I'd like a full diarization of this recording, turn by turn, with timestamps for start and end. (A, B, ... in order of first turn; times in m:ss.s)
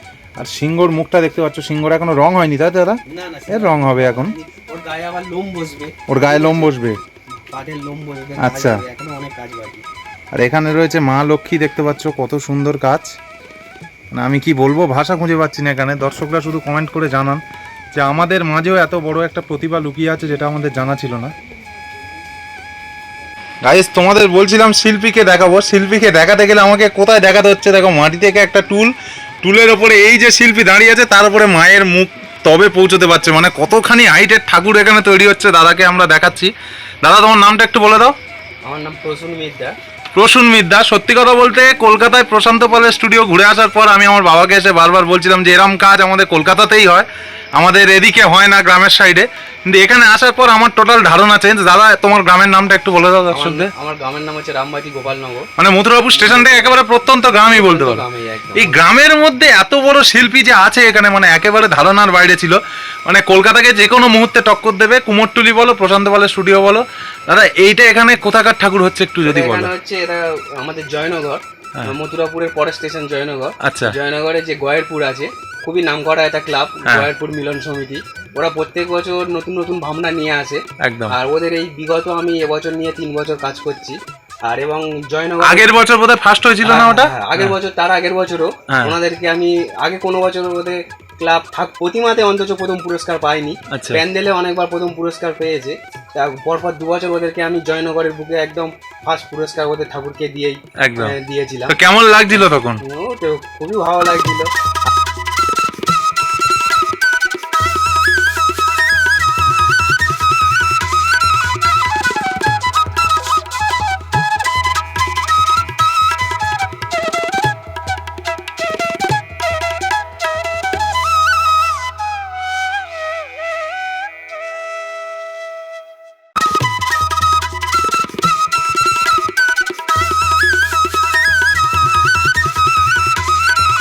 0:00.4-0:04.3 A
0:03.1-0:06.9 B
0:06.1-0:07.0 A
0:07.5-0:09.8 B
0:08.4-0:08.8 A
0:10.3-0:13.2 A
0:14.1-0:17.4 A
0:17.9-0:21.3 A
0:23.6-0:28.9 A
0:29.4-0:36.5 A
0:37.0-0:38.1 A
0:38.6-0:39.7 B
0:40.1-0:53.7 A
0:53.3-0:55.5 B
0:55.6-0:58.0 A
0:56.1-0:56.8 B
0:57.5-0:58.8 B
0:58.6-1:09.7 A
1:09.2-1:25.8 B
1:13.6-1:13.9 A
1:20.8-1:21.1 A
1:25.4-1:27.6 A
1:26.6-1:41.7 B
1:28.7-1:28.9 A
1:33.7-1:34.0 A
1:40.8-1:41.1 A
1:41.7-1:42.8 A
1:42.8-1:44.5 B